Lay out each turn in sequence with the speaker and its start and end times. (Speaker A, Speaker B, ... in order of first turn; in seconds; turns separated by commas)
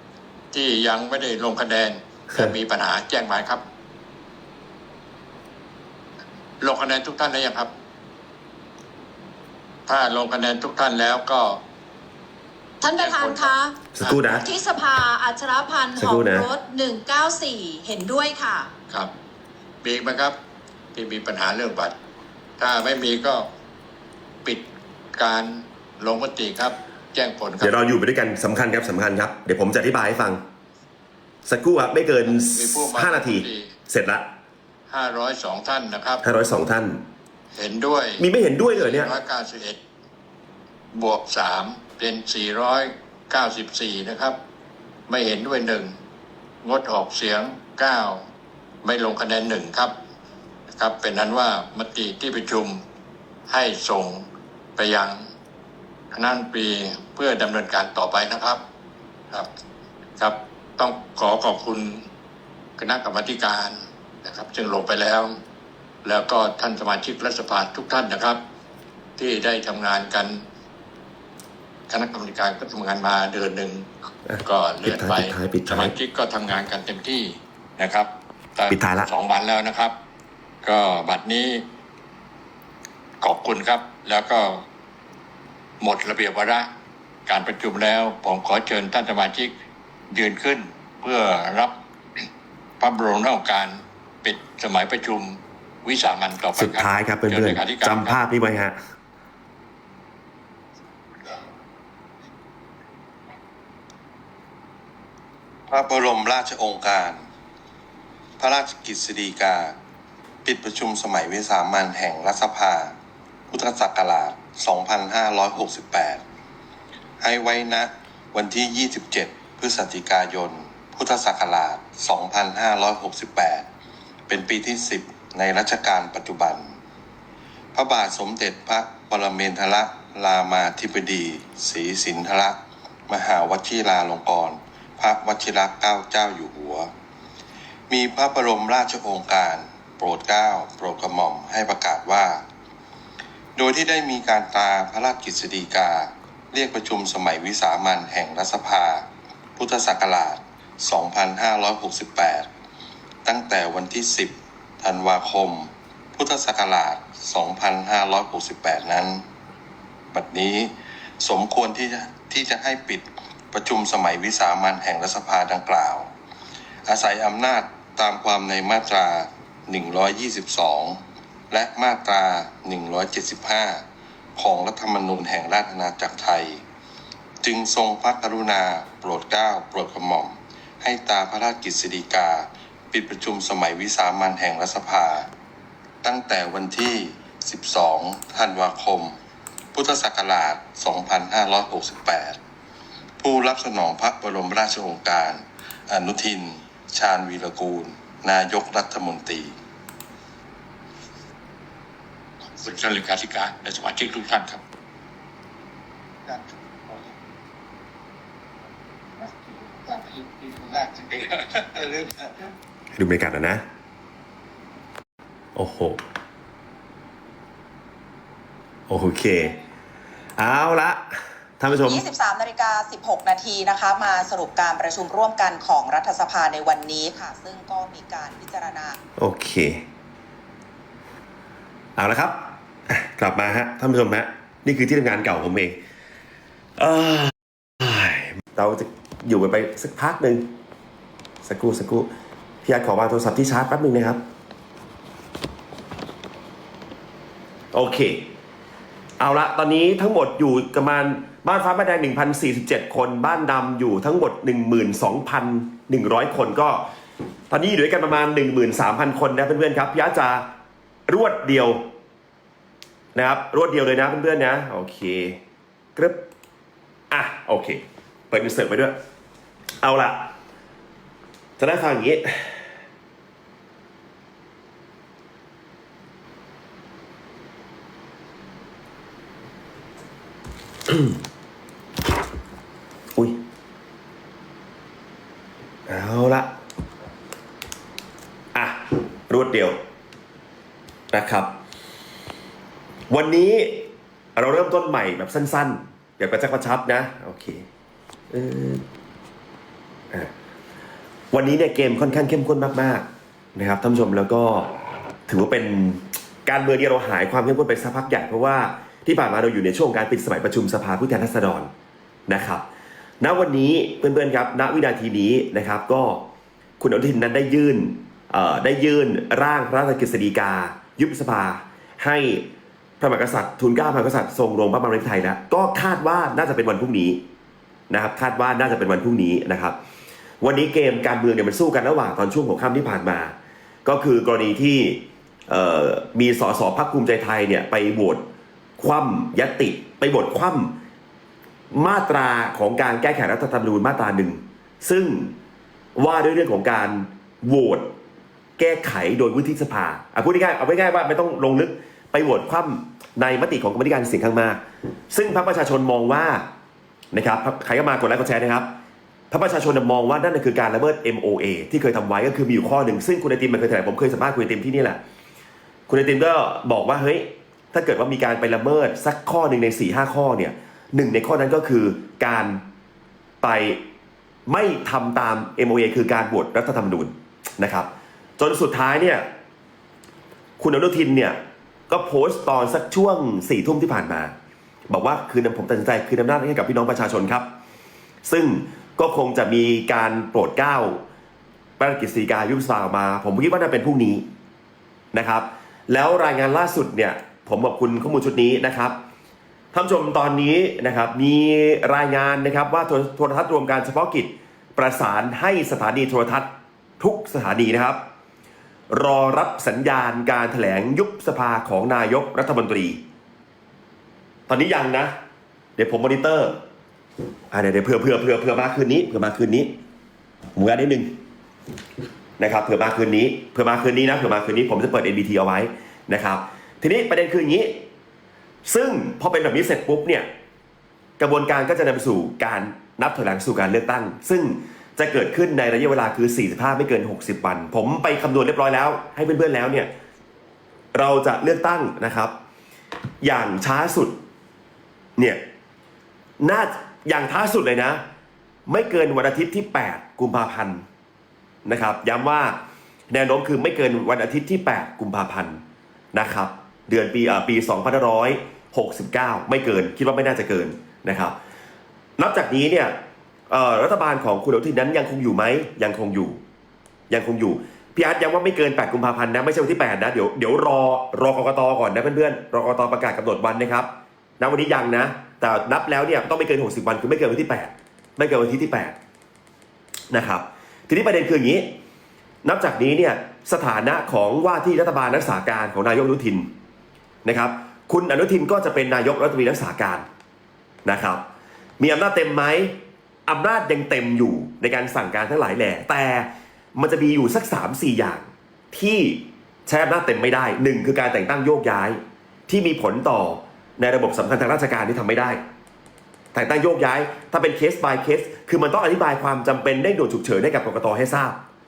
Speaker A: 0.5-3.6, Speaker A: 6.6-7.7, Speaker A: 9.9-11.6, Speaker B: 12.8-18.7, Speaker A: 12.9-14.2, Speaker C: 13.9-14.5, Speaker C: 15.9-16.5, Speaker A: 19.8-20.4, Speaker A: 20.9-21.9, Speaker A: 22.6-23.5, Speaker A: 24.4-27.8, Speaker C: 27.6-30.4, Speaker C: 31.4-34.3, Speaker A: 32.3-33.7, Speaker A: 34.9-36.2, Speaker C: 36.2-37.0, Speaker A: 37.5-39.8, Speaker C: 38.2-39.1, Speaker A: 40.9-44.4, Speaker A: 45.1-45.9, Speaker A: 46.6-48.2, Speaker A: 48.8-49.9, Speaker A: 50.7-52.8, Speaker A: 53.5-54.2, Speaker A: 54.8-55.3, Speaker A: 56.1-58.6, Speaker A: 60.2-62.1, Speaker A: 62.8-65.3, Speaker A: 66.0-68.4, Speaker A: 69.2-70.4, Speaker A: 71.9-73.9, Speaker C: 74.3-76.0, Speaker A: 74.4-79.9, Speaker C: 78.7-79.1, Speaker A: 80.6-81.6, Speaker A: 83.2-84.6, Speaker A: 85.8-86.7, Speaker A: 87.3-89.5, Speaker A: 90.1-91.8, Speaker A: 92.8-98.2, Speaker C: 96.6-98.8, Speaker D: 105.7-107.2, Speaker D: 108.4-109.8, Speaker D: 110.4-112.9, Speaker D: 113.5-116.2, Speaker D: 117.2-123.7, Speaker D: 124.3-126.7, Speaker D: 127.7-136.9, Speaker D: 137.9-142.4, Speaker D: 143.6-152.5, Speaker D: 153.2-159.2, Speaker D: 160.1-166.1, Speaker D: 166.9-173.8, Speaker D: 174.4-176.6, Speaker D: 177.4-185.3, Speaker D: 186.0-189.2, Speaker D: 189.7-192.4, Speaker D: 193.2-199.5, Speaker A: 202.6-204.6, Speaker C: 212.9-213.6, Speaker C: 215.6-216.0, Speaker C: 218.9-219.6, Speaker C: 220.4-222.0, Speaker E: 221.8-229.0, Speaker C: 229.2-229.8, Speaker C: 232.0-235.8, Speaker C: 236.8-240.5, Speaker C: 241.4-242.1, Speaker C: 242.6-244.2, Speaker C: 247.7-248.3, Speaker C: 249.2-256.9, Speaker C: 257.5-260.5, Speaker C: 261.1-261.9, Speaker C: 263.1-265.4, Speaker C: 265.9-266.2, Speaker C: 267.1-268.9, Speaker C: 269.8-270.3, Speaker C: 271.6-272.6, Speaker C: 280.9-281.2, Speaker C: 283.1-283.4, Speaker C: 285.9-286.5, Speaker C: 288.6-289.8, Speaker C: 291.1-291.6, Speaker C: 293.1-297.6, Speaker C: 298.3-298.8, Speaker C: 301.3-304.7, Speaker C: 305.3-311.7, Speaker C: 312.3-312.6, Speaker C: 313.2-316.2, Speaker C: 316.8-322.5, Speaker C: 323.0-327.2, Speaker C: 327.9-329.8, Speaker C: 330.4-333.3, Speaker C: 333.9-338.2, Speaker C: 338.8-340.8, Speaker C: 341.7-345.4, Speaker C: 345.9-347.9, Speaker C: 348.6-356.4, Speaker C: 357.1-358.7, Speaker C: 359.3-365.0, Speaker C: 365.9-372.6, Speaker C: 373.4-373.8, Speaker C: 374.5-379.3, Speaker C: 380.6-381.4, Speaker C: 381.9-384.3, Speaker C: 384.9-387.5, Speaker C: 388.2-391.0, Speaker C: 391.8-394.3, Speaker C: 395.1-399.0, Speaker C: 399.7-408.0, Speaker C: 408.9-413.0, Speaker C: 414.5-415.1, Speaker C: 415.8-416.6, Speaker C: 417.5-419.8, Speaker C: 420.6-421.2, Speaker C: 422.4-427.9, Speaker C: 428.6-430.3, Speaker C: 431.2-439.9, Speaker C: 440.9-442.3, Speaker C: 443.2-444.2, Speaker C: 446.4-448.0, Speaker C: 448.7-450.8, Speaker C: 451.6-452.6, Speaker C: 453.1-455.6, Speaker C: 456.1-461.4, Speaker C: 462.2-463.0, Speaker C: 463.5-466.4, Speaker C: 467.1-478.9, Speaker C: 480.1-481.8, Speaker C: 482.4-486.5, Speaker C: 487.2-490.1, Speaker C: 490.9-491.3, Speaker C: 491.8-492.8, Speaker C: 493.3-505.4, Speaker C: 506.3-511.4